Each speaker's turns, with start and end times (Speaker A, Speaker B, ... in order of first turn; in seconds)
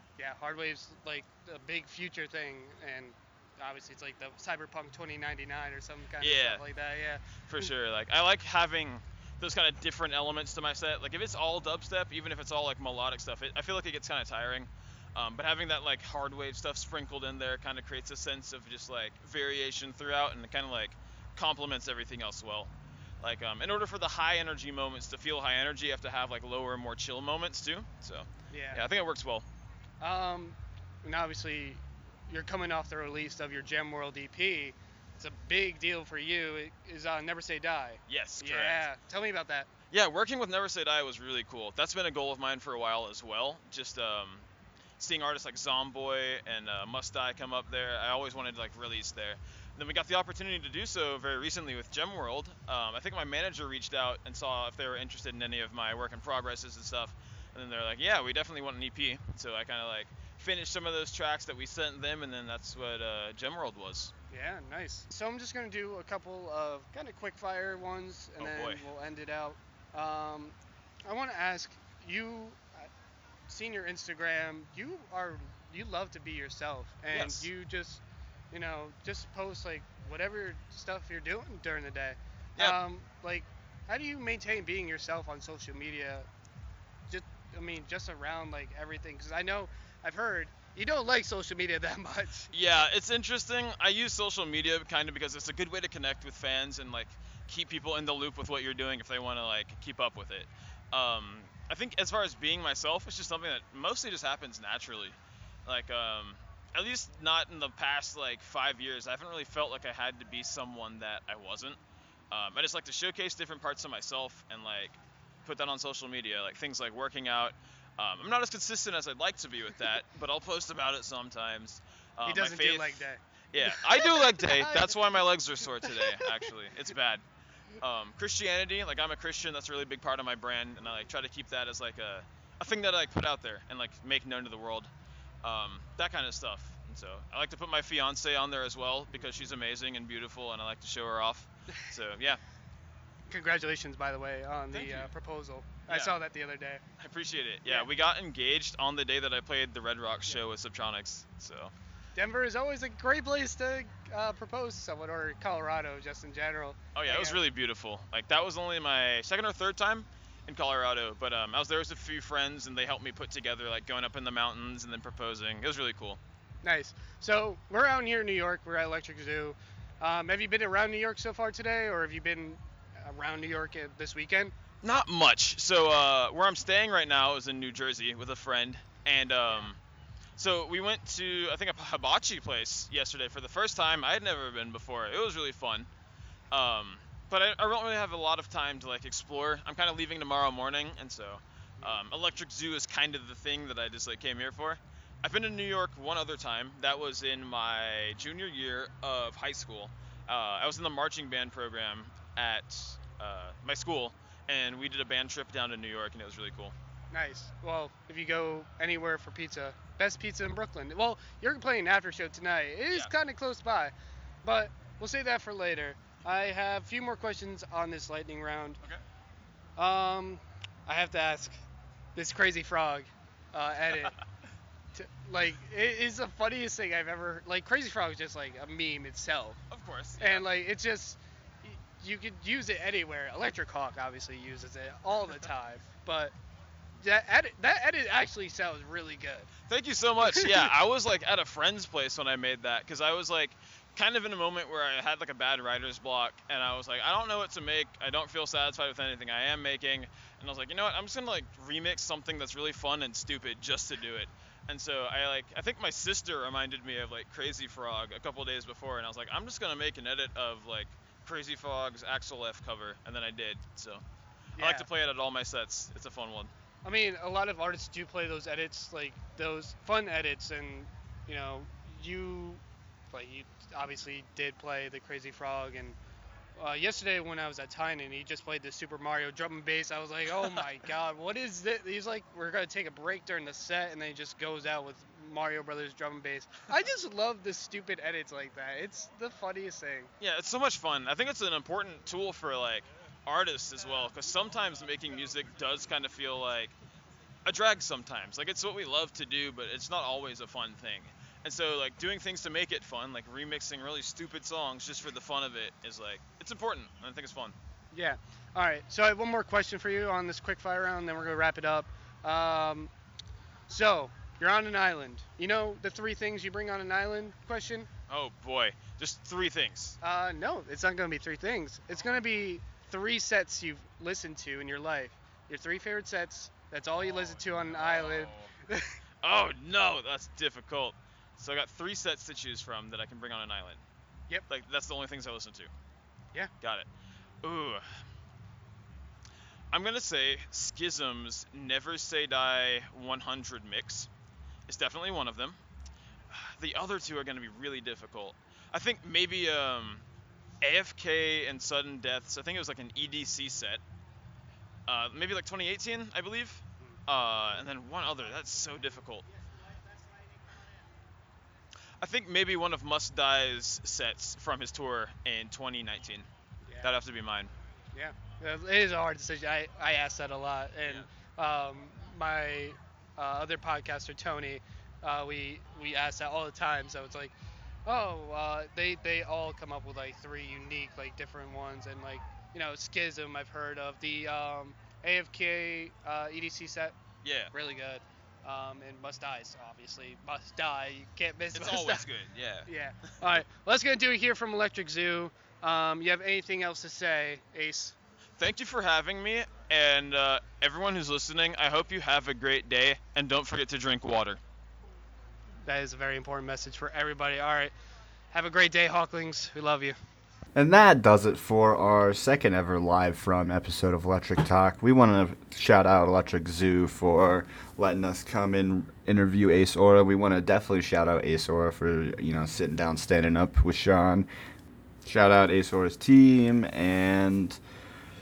Speaker A: 0.2-7.7, 28.5-28.9, 30.0-39.7, 64.3-72.9, 73.5-86.3, 87.1-92.5, 122.3-125.0, 125.8-126.4, 143.3-146.8, 152.2-157.4, 166.6-174.5, 207.1-213.9, 214.4-218.8, 219.8-221.6, 222.2-224.2, 224.9-229.6, 230.2-236.3, 237.0-239.5, 240.2-240.6, 264.6-264.9, 266.8-272.6, 273.1-276.0, 276.6-290.1, 307.9-312.9, 313.7-317.9, 320.0-328.9, 366.6-366.9, 367.9-377.4, 377.9-387.0, 387.5-392.1, 392.7-398.0, 405.6-407.7, 408.3-410.0
Speaker B: 6.2-6.6, 7.5-29.4, 38.1-38.8, 39.9-44.5, 45.0-64.1, 68.4-68.8, 77.1-77.5, 92.5-111.8, 112.3-123.0, 123.5-127.2, 127.8-134.9, 135.4-142.4, 144.7-145.1, 145.9-146.2, 147.0-151.7, 156.9-166.2, 174.8-179.8, 180.4-185.9, 186.5-206.7, 229.7-230.5, 239.7-264.0, 264.6-266.5, 290.2-296.7, 297.4-307.6, 318.1-320.0, 328.1-328.5, 329.2-333.8, 334.5-335.7, 336.6-336.9, 337.4-337.9, 339.7-344.1, 344.7-345.6, 346.3-350.0, 350.6-353.8, 354.9-359.2, 362.0-366.3, 366.8-367.5, 387.2-387.5, 391.5-392.7, 398.4-404.4
Speaker C: 410.6-424.3, 425.1-427.6